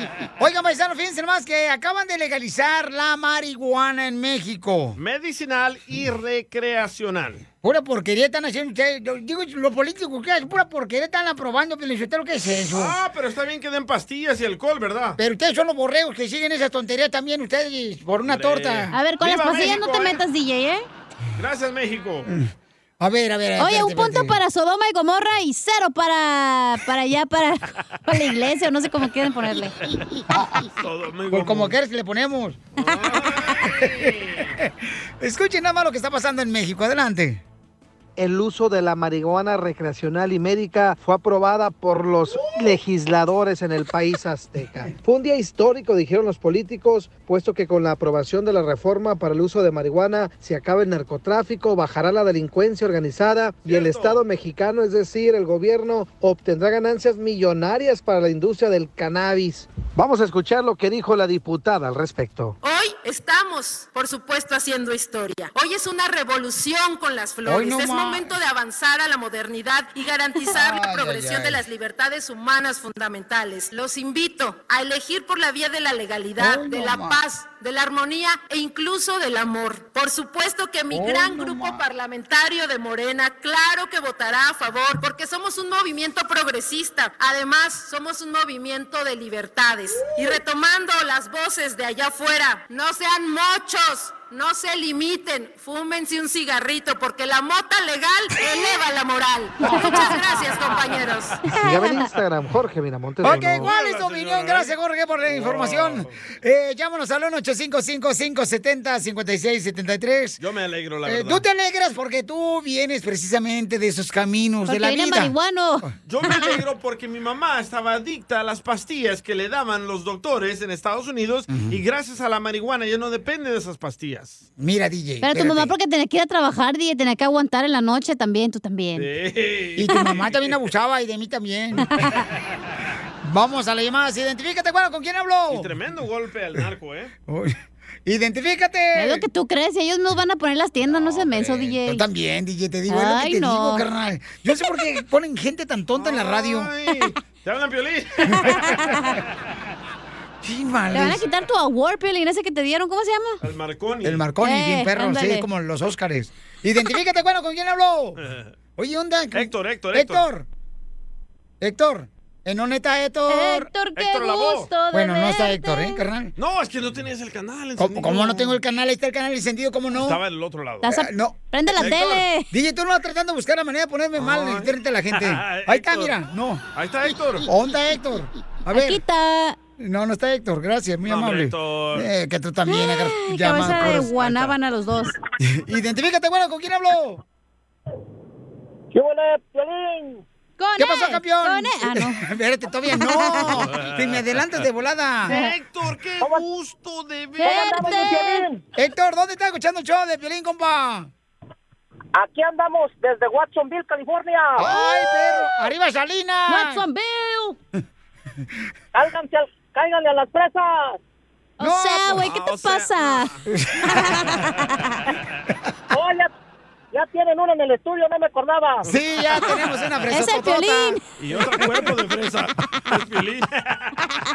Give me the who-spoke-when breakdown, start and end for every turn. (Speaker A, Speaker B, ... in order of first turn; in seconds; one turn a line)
Speaker A: 0.4-5.0
Speaker B: 5.0-7.4
Speaker A: 7.6-13.0
Speaker B: 12.7-15.2
Speaker A: 15.2-18.9
Speaker B: 18.2-20.2
Speaker C: 18.9-20.9
Speaker B: 21.4-22.3
Speaker A: 23.0-24.4
Speaker C: 23.6-29.8
Speaker A: 30.3-30.6
Speaker B: 30.6-31.8
Speaker A: 31.3-32.6
Speaker B: 32.8-34.5
Speaker A: 33.7-37.4
Speaker D: 38.2-62.5
Speaker B: 53.6-54.2
Speaker E: 62.6-101.4
Speaker A: 67.4-68.3
Speaker A: 70.5-71.6
Speaker A: 76.4-77.2
Speaker A: 80.9-81.8
Speaker C: 98.5-98.8
Speaker C: 99.7-100.2
Speaker C: 101.5-102.0
Speaker D: 101.5-103.7
Speaker A: 103.2-110.4
Speaker B: 103.2-106.2
Speaker B: 110.4-111.4
Speaker A: 111.0-115.3
Speaker C: 114.7-116.5
Speaker B: 116.0-124.4
Speaker A: 121.5-121.8
Speaker A: 124.6-125.7
Speaker C: 125.2-129.1
Speaker B: 128.9-130.6
Speaker A: 129.8-131.9
Speaker A: 133.2-135.7
Speaker B: 135.5-137.1
Speaker A: 137.3-139.2
Speaker C: 138.9-142.0
Speaker A: 140.9-146.7
Speaker C: 142.9-143.8
Speaker B: 145.9-149.0
Speaker A: 150.4-151.2
Speaker C: 150.9-153.4
Speaker B: 153.4-154.2
Speaker A: 154.0-158.2
Speaker C: 154.4-155.5
Speaker B: 158.2-158.5
Speaker A: 158.8-160.5
Speaker B: 159.3-160.2
Speaker A: 161.6-163.7
Speaker C: 163.3-166.0
Speaker B: 163.9-164.7
Speaker A: 164.9-166.3
Speaker B: 166.3-168.6
Speaker A: 167.8-170.2
Speaker B: 170.0-170.9
Speaker C: 170.8-172.5
Speaker A: 170.9-171.4
Speaker B: 171.7-172.2
Speaker A: 172.5-176.6
Speaker B: 174.2-176.2
Speaker B: 176.7-177.5
Speaker A: 177.4-179.0
Speaker C: 178.7-179.6
Speaker A: 179.8-184.5
Speaker B: 181.1-182.1
Speaker C: 182.7-185.1
Speaker A: 185.4-187.2
Speaker F: 188.9-190.2
Speaker C: 190.6-192.2
Speaker A: 190.8-195.3
Speaker C: 192.9-193.7
Speaker B: 193.7-194.2
Speaker B: 195.2-198.1
Speaker C: 197.4-198.5
Speaker F: 197.5-198.6
Speaker A: 198.7-201.1
Speaker F: 202.1-204.7
Speaker A: 204.6-206.8
Speaker C: 206.5-207.6
Speaker F: 208.9-211.0
Speaker C: 211.6-213.3
Speaker A: 211.6-212.2
Speaker B: 212.1-213.3
Speaker A: 213.5-213.9
Speaker C: 213.8-215.0
Speaker B: 213.9-214.7
Speaker F: 215.9-216.3
Speaker F: 216.9-218.9
Speaker A: 218.8-221.0
Speaker C: 220.1-221.0
Speaker B: 221.2-224.0